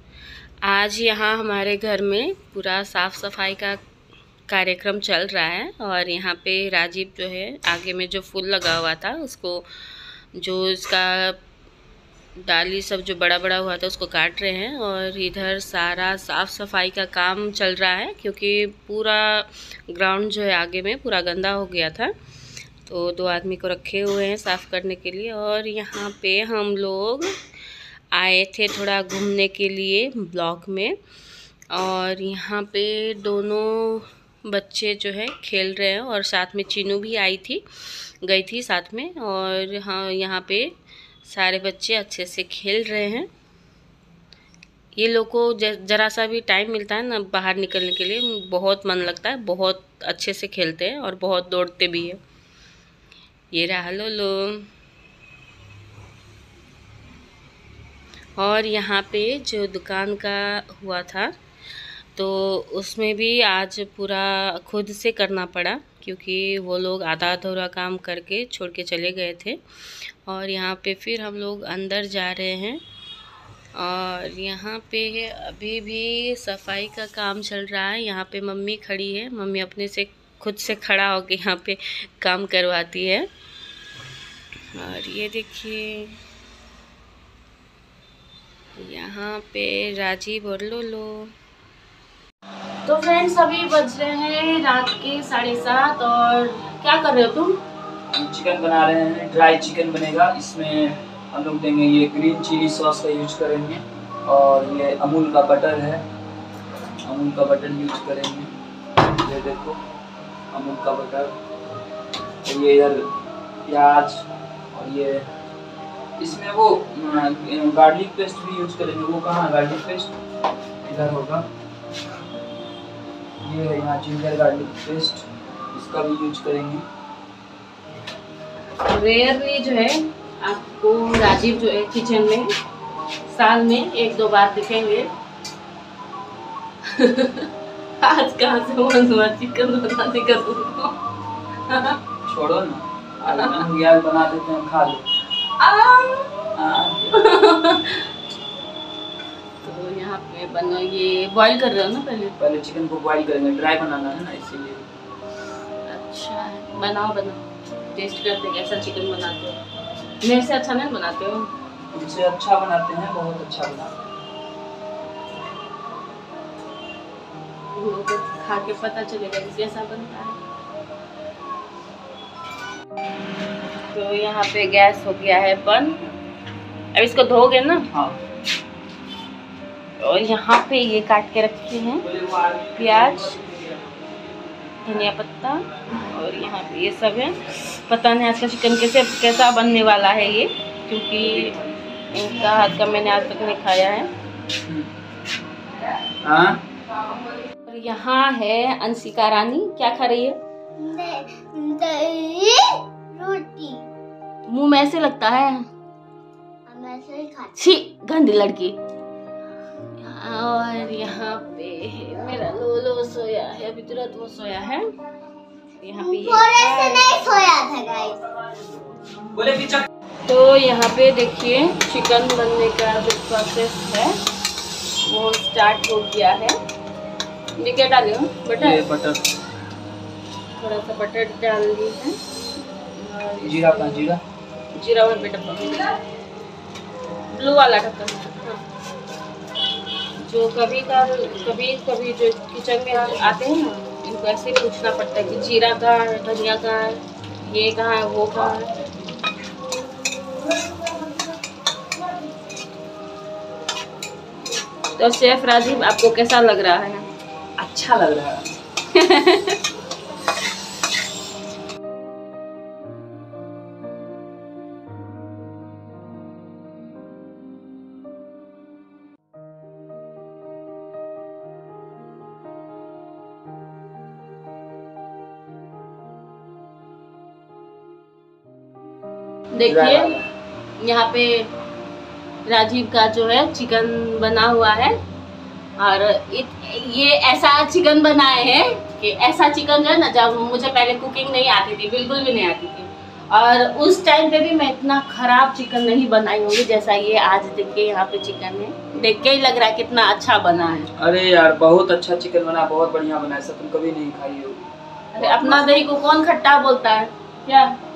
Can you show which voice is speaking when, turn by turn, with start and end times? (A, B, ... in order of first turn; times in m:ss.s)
0:00.6-0:03.8 A
0:04.5-0:11.4 A
0:12.4-0:22.1 A
0:22.8-0:27.3 A
0:28.1-0:31.0 A
0:31.7-0:37.6 A
0:38.2-0:40.7 A
0:41.2-0:43.3 A
0:45.0-0:52.2 A
0:53.5-0:54.7 A
0:58.4-1:01.4 A
1:02.2-1:12.8 A
1:13.8-1:23.3 A
1:24.8-1:26.2 A
1:28.8-1:31.3 A
1:32.8-1:37.6 A
1:38.1-1:46.0 B
1:47.0-1:48.5 B
1:49.2-1:49.8 B
1:50.5-1:51.4 B
1:52.4-1:53.2 B
1:53.7-1:55.3 B
1:56.2-2:00.1 B
2:00.8-2:01.5 B
2:03.4-2:06.8 B
2:08.8-2:12.5 A
2:13.3-2:15.1 A
2:16.8-2:21.0 A
2:21.6-2:22.0 A
2:22.3-2:25.1 B
2:23.2-2:23.6 A
2:25.6-2:26.3 A
2:26.6-2:27.2 B
2:27.1-2:28.1 A
2:29.6-2:32.4 A
2:32.4-2:34.9 B
2:35.9-2:39.6 A
2:40.2-2:41.5 A
2:41.9-2:43.9 B
2:47.8-2:50.4 A
2:53.9-2:56.0 A
2:56.9-2:57.9 A
2:57.9-2:58.2 B
3:00.0-3:02.1 A
3:02.1-3:04.2 B
3:02.7-3:03.4 A
3:04.8-3:11.6 A
3:11.2-3:11.8 B
3:12.1-3:14.1 A
3:14.6-3:14.9 B
3:16.2-3:16.6 B
3:17.7-3:20.4 A
3:20.8-3:23.9 C
3:24.5-3:25.7 A
3:26.7-3:27.5 C
3:27.6-3:28.8 A
3:30.0-3:34.9 A
3:35.8-3:37.5 A
3:36.0-3:38.2 C
3:39.3-3:39.8 B
3:40.3-3:44.2 A
3:45.0-3:46.6 A
3:47.6-3:48.8 A
3:48.6-3:49.3 B
3:50.6-3:52.2 A
3:52.8-3:54.1 A
3:53.4-3:54.2 B
3:54.7-3:56.0 A
3:57.3-3:58.6 A
4:00.2-4:08.8 A
4:15.0-4:17.1 A
4:17.6-4:18.6 B
4:18.9-4:19.6 A
4:39.5-4:40.2 A
4:39.6-4:40.3 B
4:40.8-4:41.5 A
4:42.5-4:45.0 A
4:45.8-5:00.9 A
5:01.0-5:04.7 B
5:05.1-5:07.7 A